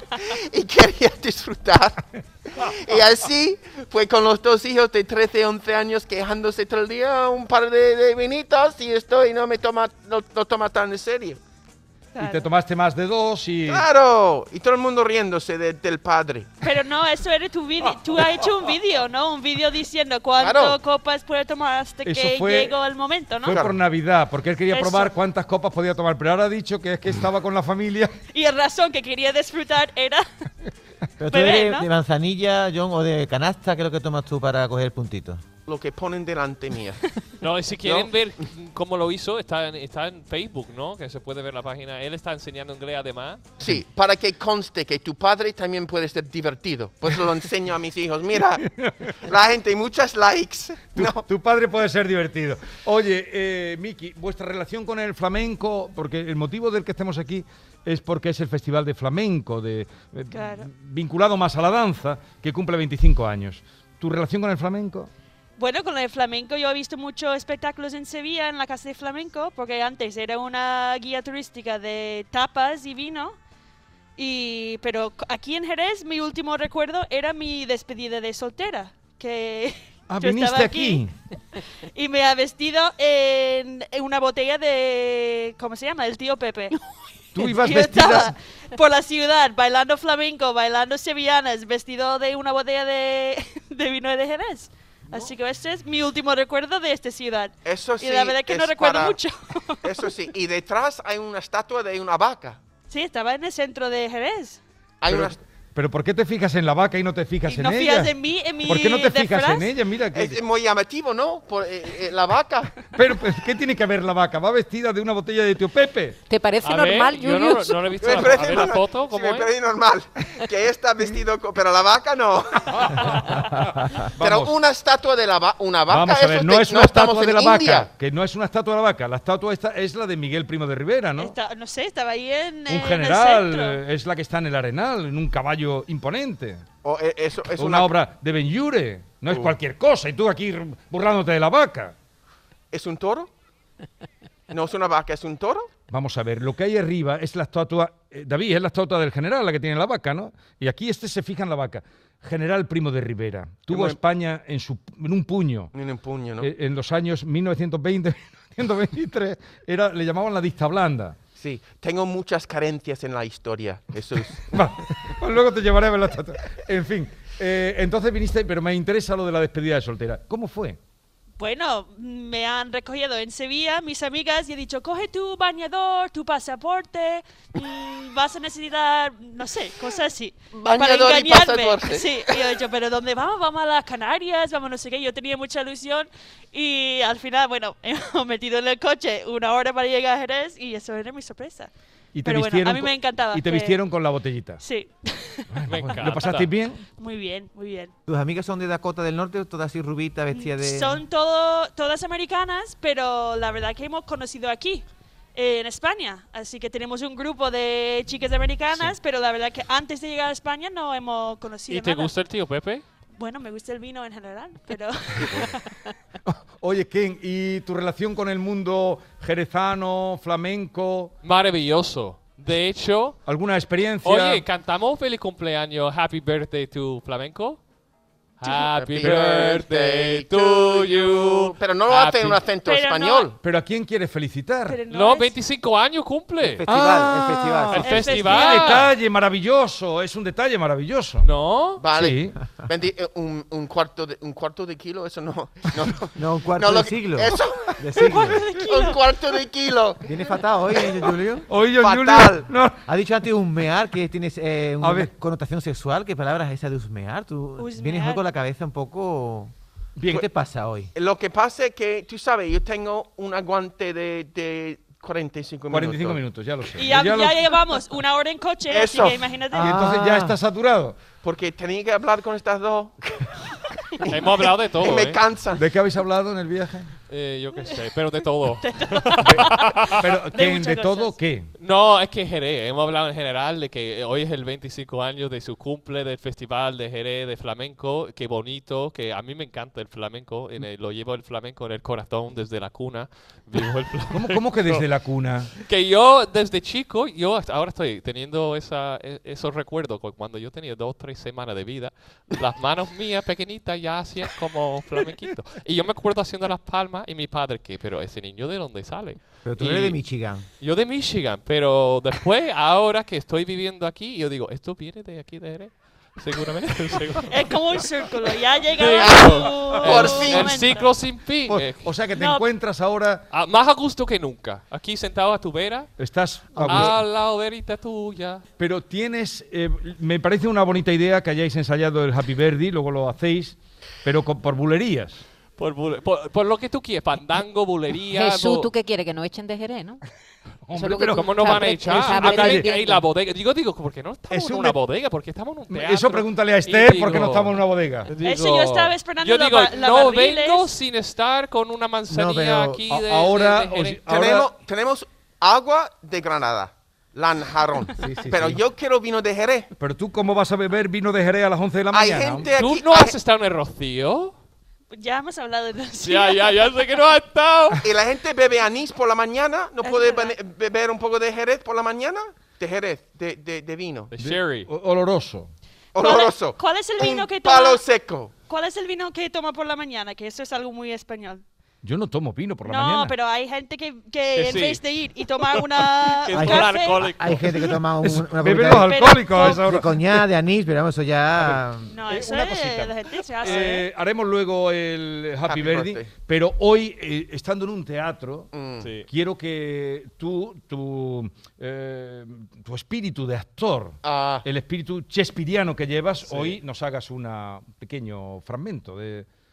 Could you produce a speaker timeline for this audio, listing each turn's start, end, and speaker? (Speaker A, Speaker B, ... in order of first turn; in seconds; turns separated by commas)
Speaker A: 0.1-11.4, Speaker B: 12.1-12.5, Speaker C: 12.2-13.8, Speaker A: 13.7-16.5, Speaker B: 16.6-23.6, Speaker A: 20.4-20.8, Speaker C: 22.0-22.8, Speaker C: 23.4-28.1, Speaker A: 23.5-23.8, Speaker B: 24.7-25.1, Speaker B: 28.3-30.2, Speaker D: 31.2-35.4, Speaker B: 31.3-31.9, Speaker A: 35.7-37.1, Speaker E: 37.4-43.4, Speaker A: 37.8-38.1, Speaker A: 43.6-48.6, Speaker C: 48.6-49.1, Speaker A: 49.2-51.2, Speaker C: 50.9-65.1, Speaker B: 60.3-60.7, Speaker B: 65.6-73.3, Speaker B: 74.2-81.0, Speaker C: 80.1-81.1, Speaker B: 81.9-86.8, Speaker C: 87.3-88.3, Speaker B: 87.4-99.9, Speaker A: 97.6-99.2, Speaker A: 99.8-102.6, Speaker B: 102.9-104.6, Speaker A: 105.0-105.4, Speaker C: 105.1-108.1, Speaker B: 107.5-109.7, Speaker C: 108.6-110.4, Speaker A: 110.1-112.8, Speaker C: 112.9-116.2, Speaker F: 116.3-117.8, Speaker E: 116.6-119.5, Speaker A: 118.0-123.6, Speaker C: 122.8-124.5, Speaker A: 124.2-127.9, Speaker C: 125.9-131.3, Speaker B: 131.2-133.8, Speaker C: 132.7-136.6, Speaker A: 136.8-137.9, Speaker C: 137.6-141.9, Speaker A: 139.3-139.6, Speaker A: 142.7-143.3, Speaker A: 144.5-145.7, Speaker C: 145.9-155.7, Speaker A: 153.7-154.0, Speaker A: 155.7-156.5, Speaker C: 156.4-161.2, Speaker A: 161.4-164.7, Speaker C: 164.5-170.8, Speaker B: 171.4-191.7, Speaker A: 180.5-182.4, Speaker C: 192.1-194.6, Speaker B: 192.2-193.8, Speaker B: 194.6-195.5, Speaker C: 195.5-196.8, Speaker E: 195.7-196.5, Speaker B: 197.0-197.9, Speaker D: 198.1-201.0, Speaker B: 200.3-212.1, Speaker E: 211.7-212.8, Speaker B: 213.2-215.6, Speaker C: 216.2-221.1, Speaker E: 221.2-223.2, Speaker C: 223.2-224.4, Speaker E: 224.0-227.6, Speaker E: 228.4-232.4, Speaker A: 228.5-233.4, Speaker B: 232.6-233.3, Speaker C: 233.4-234.8, Speaker B: 234.7-235.3, Speaker E: 234.9-236.6, Speaker D: 236.4-238.0, Speaker C: 236.7-241.3, Speaker E: 237.7-238.9, Speaker B: 237.8-238.9, Speaker E: 241.2-241.8, Speaker A: 241.8-250.1, Speaker C: 241.9-242.4, Speaker D: 246.2-248.4, Speaker B: 248.0-249.0, Speaker D: 250.0-251.5, Speaker A: 250.8-251.0, Speaker C: 251.5-252.8, Speaker A: 251.8-252.5, Speaker D: 252.8-259.5, Speaker C: 254.8-255.1, Speaker B: 257.6-258.2, Speaker C: 260.0-260.2, Speaker D: 260.1-260.9, Speaker A: 260.9-266.2, Speaker C: 265.7-267.5, Speaker B: 266.8-269.8, Speaker A: 268.7-269.3, Speaker D: 269.5-270.4, Speaker C: 269.6-271.0, Speaker A: 271.2-275.7, Speaker E: 274.1-275.2, Speaker C: 275.6-276.9, Speaker E: 277.1-280.0, Speaker B: 278.6-281.1, Speaker C: 279.2-281.5, Speaker E: 281.6-294.9, Speaker C: 294.1-295.5, Speaker E: 295.6-310.0, Speaker D: 309.4-310.4, Speaker E: 310.6-317.5, Speaker B: 317.3-320.9, Speaker E: 318.7-321.9, Speaker A: 319.0-320.7, Speaker C: 321.5-323.2, Speaker B: 322.1-322.5, Speaker E: 323.3-325.9, Speaker C: 326.0-327.0, Speaker E: 326.5-328.4, Speaker C: 328.6-335.2, Speaker E: 335.6-338.7, Speaker F: 338.1-340.0, Speaker C: 340.6-342.7, Speaker F: 340.7-343.0, Speaker E: 341.1-354.0, Speaker C: 344.3-344.8, Speaker C: 345.7-348.1, Speaker B: 348.2-350.7, Speaker D: 352.1-352.8, Speaker C: 352.9-354.5, Speaker A: 354.1-359.7, Speaker D: 358.0-358.6, Speaker C: 359.8-362.5, Speaker A: 361.9-363.1, Speaker E: 362.5-364.3, Speaker B: 364.9-366.5, Speaker E: 366.0-367.8, Speaker A: 367.8-374.1, Speaker B: 369.8-370.3, Speaker E: 374.1-374.7, Speaker C: 374.2-375.5, Speaker A: 375.9-378.3, Speaker B: 376.0-377.8, Speaker B: 378.5-381.4, Speaker C: 381.8-383.1, Speaker B: 382.6-387.1, Speaker E: 384.4-384.8, Speaker E: 385.4-387.8, Speaker D: 386.3-391.9, Speaker C: 388.0-390.2, Speaker B: 388.7-389.6, Speaker C: 391.4-398.5, Speaker B: 391.9-393.9, Speaker A: 395.4-396.1, Speaker A: 398.5-398.9, Speaker E: 398.8-399.1, Speaker C: 399.0-409.3, Speaker A: 404.0-404.4, Speaker E: 406.2-406.6